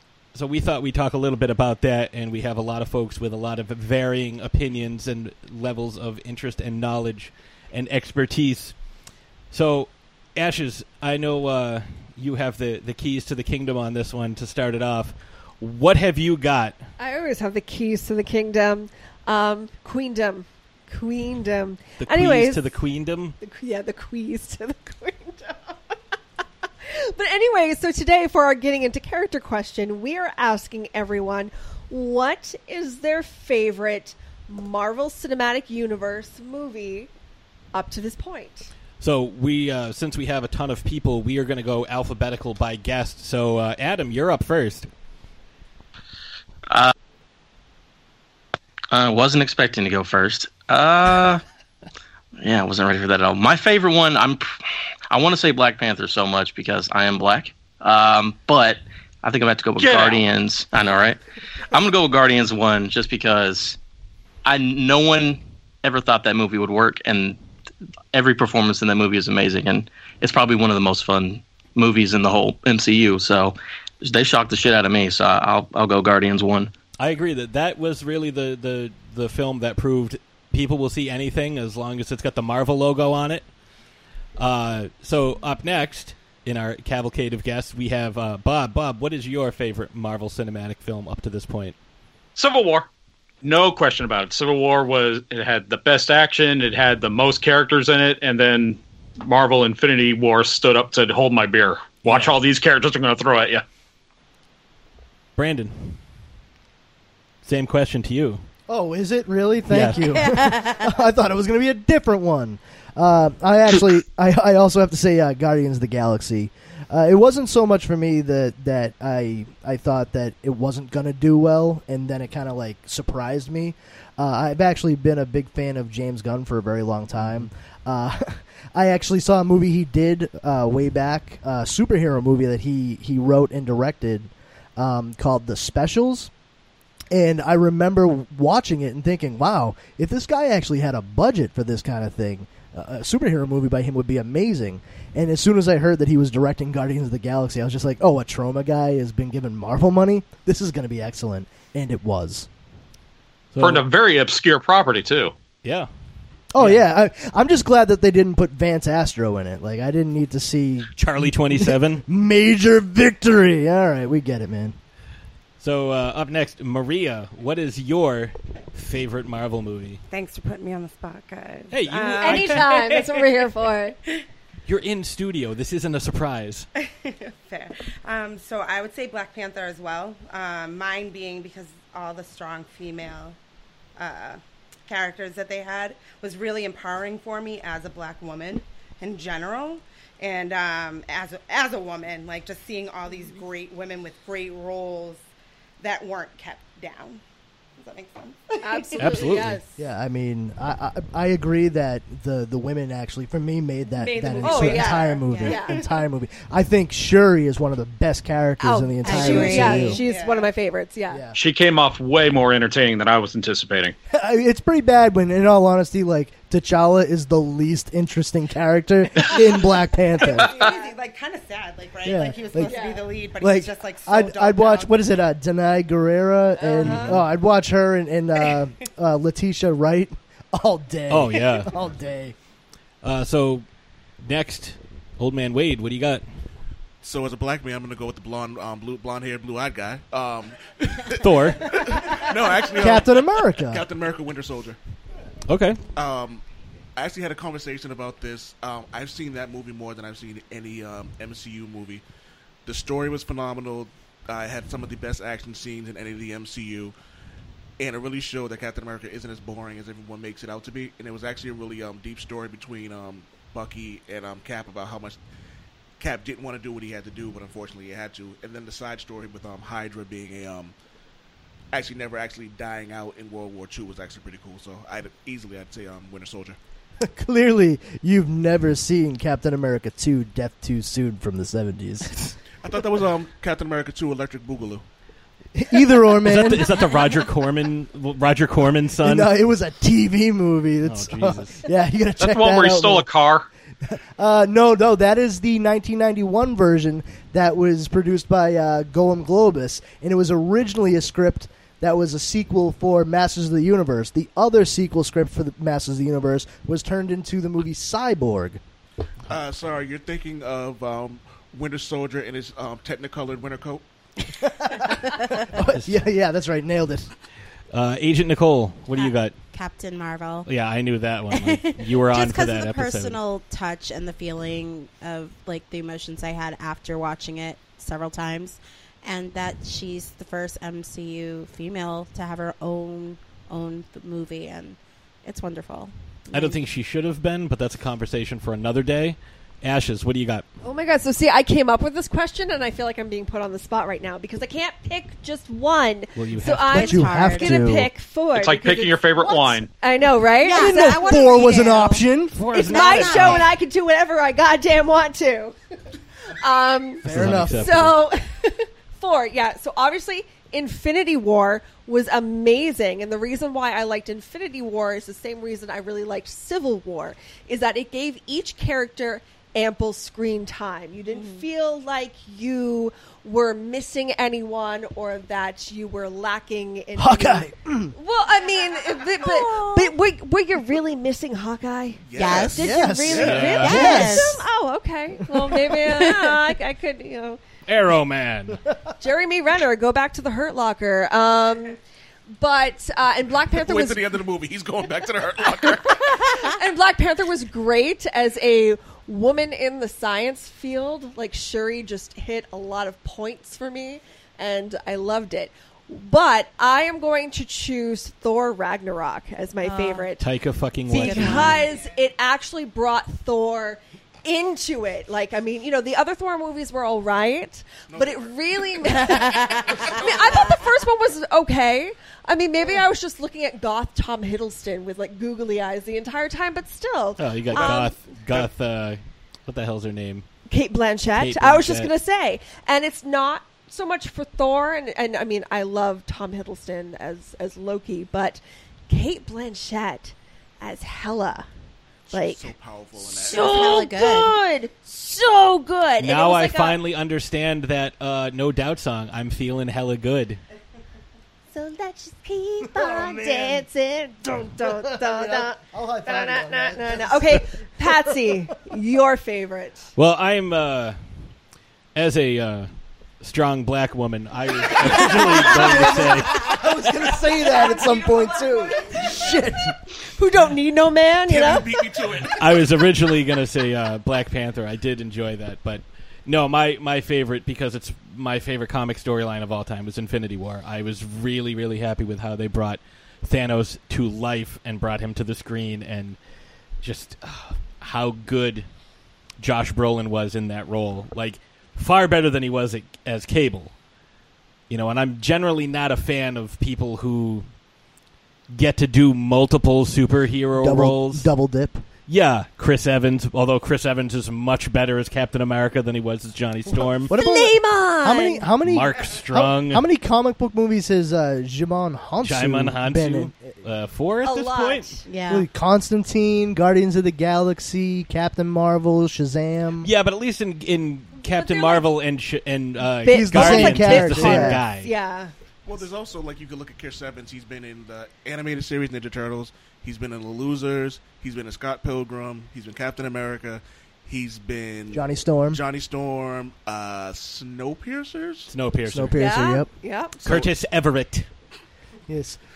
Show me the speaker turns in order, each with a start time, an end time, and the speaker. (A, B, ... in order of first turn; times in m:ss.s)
0:00.3-0:08.7 A
0:09.5-0:16.8 A
0:17.0-0:22.6 B
0:22.0-0:23.4 A
0:23.4-0:25.9 B
0:26.8-0:37.1 B
0:37.7-0:38.7 B
0:39.0-0:44.9 A
0:48.9-0:51.4 C
0:52.4-0:54.4 C
0:55.1-1:01.2 C
0:59.8-1:00.2 D
1:01.7-1:03.8 C
1:04.4-1:07.4 C
1:08.1-1:16.7 C
1:17.0-1:23.5 A
1:24.4-1:31.8 A
1:32.4-1:32.9 D
1:33.4-1:43.6 D
1:42.0-1:42.4 A
1:45.4-1:46.0 A
1:47.4-1:48.4 A
1:48.7-2:16.3 E
1:49.7-1:50.1 A
1:50.0-1:50.8 F
2:07.1-2:07.5 A
2:17.1-2:32.5 E
2:33.5-2:33.8 A
2:33.6-2:35.3 D
2:35.6-2:35.9 A
2:36.5-2:40.9 E
2:36.6-2:36.8 A
2:41.0-2:42.0 A
2:41.6-2:44.8 E
2:45.6-2:50.0 A
2:50.1-2:52.7 G
2:51.7-2:53.2 A
2:52.1-2:54.0 B
2:54.6-2:56.7 A
2:56.8-3:03.4 G
3:04.0-3:15.2 G
3:15.8-3:17.2 G
3:17.8-3:19.3 G
3:18.6-3:19.7 B
3:19.0-3:19.6 A
3:19.8-3:30.0 E
3:24.0-3:25.9 G
3:24.4-3:25.9 B
3:25.2-3:25.6 F
3:28.6-3:31.2 B
3:29.0-3:30.0 F
3:30.0-3:30.5 G
3:31.1-3:31.4 E
3:31.3-3:33.9 D
3:34.1-3:40.6 E
3:40.2-3:45.0 G
3:40.4-3:40.9 B
3:42.0-3:42.8 E
3:42.6-3:43.0 B
3:43.4-3:52.3 E
3:46.6-3:47.2 B
3:46.9-3:47.2 A
3:51.1-3:51.7 A
3:53.0-3:53.6 A
3:54.2-3:56.2 A
3:57.0-4:04.8 H
4:01.2-4:01.8 A
4:02.7-4:03.8 E
4:05.5-4:05.8 A
4:05.9-4:06.4 H
4:07.0-4:12.0 H
4:12.6-4:16.9 H
4:17.8-4:25.2 H
4:26.0-4:30.7 H
4:31.7-4:36.6 H
4:37.0-4:42.3 E
4:42.6-4:44.8 H
4:45.5-4:46.8 E
4:46.2-4:49.3 A
4:49.0-4:53.1 E
4:50.8-4:51.6 A
4:52.2-4:53.5 D
4:53.9-5:08.6 E
5:09.3-5:13.8 H
5:14.6-5:17.1 E
5:15.1-5:15.4 F
5:15.6-5:16.0 A
5:17.7-5:19.3 A
5:18.9-5:20.5 F
5:20.4-5:23.2 A
5:21.3-5:36.6 F
5:36.3-5:40.4 A
5:40.6-5:51.8 B
5:46.1-5:47.1 A
5:46.6-5:47.8 F
5:46.7-5:47.9 E
5:48.3-5:49.7 D
5:50.4-5:53.5 F
5:50.5-5:52.4 E
5:52.3-5:53.4 A
5:52.5-5:55.5 B
5:56.4-6:27.4 B
5:57.0-5:57.7 E
5:57.0-5:58.0 A
6:11.1-6:11.4 F
6:17.0-6:17.9 E
6:18.8-6:19.9 F
6:22.0-6:23.5 H
6:22.1-6:22.7 F
6:22.6-6:24.2 E
6:23.1-6:24.0 A
6:23.5-6:24.4 F
6:25.8-6:26.4 F
6:27.7-6:28.6 A
6:29.0-6:31.8 B
6:32.4-6:34.0 B
6:33.5-6:36.1 H
6:36.1-6:50.2 B
6:49.6-6:50.1 F
6:50.2-6:51.6 A
6:50.9-7:08.0 B
6:50.9-6:51.7 F
6:57.9-7:00.5 H
6:59.0-6:59.9 F
7:07.2-7:10.2 A
7:07.5-7:08.5 H
7:10.5-7:21.5 B
7:11.2-7:11.9 A
7:22.1-7:23.8 H
7:22.1-7:22.5 B
7:23.1-7:26.8 B
7:23.2-7:24.4 F
7:26.0-7:30.4 A
7:31.5-7:39.9 B
7:32.6-7:33.7 E
7:34.2-7:38.4 E
7:40.0-7:41.0 A
7:41.9-7:42.7 A
7:43.2-7:46.4 A
7:44.9-7:49.7 E
7:50.2-7:51.8 B
7:51.2-7:52.7 H
7:52.4-8:06.2 A
8:06.8-8:08.7 A
8:09.4-8:13.7 A
8:14.7-8:17.4 A
8:18.5-8:21.3 A
8:20.6-8:21.8 E
8:22.1-8:27.1 A
8:26.8-8:33.5 E
8:27.1-8:28.4 B
8:28.6-8:29.8 A
8:32.2-8:34.9 A
8:34.2-8:35.0 B
8:35.0-8:35.5 F
8:35.3-8:39.9 E
8:39.8-8:44.9 A
8:41.2-8:41.8 B
8:43.0-8:45.3 B
8:43.1-8:44.6 E
8:45.6-8:58.5 H
8:54.9-8:55.6 E
8:58.5-8:59.2 A
8:58.8-8:59.7 E
8:59.1-9:00.2 B
9:00.2-9:01.3 A
9:02.1-9:02.4 E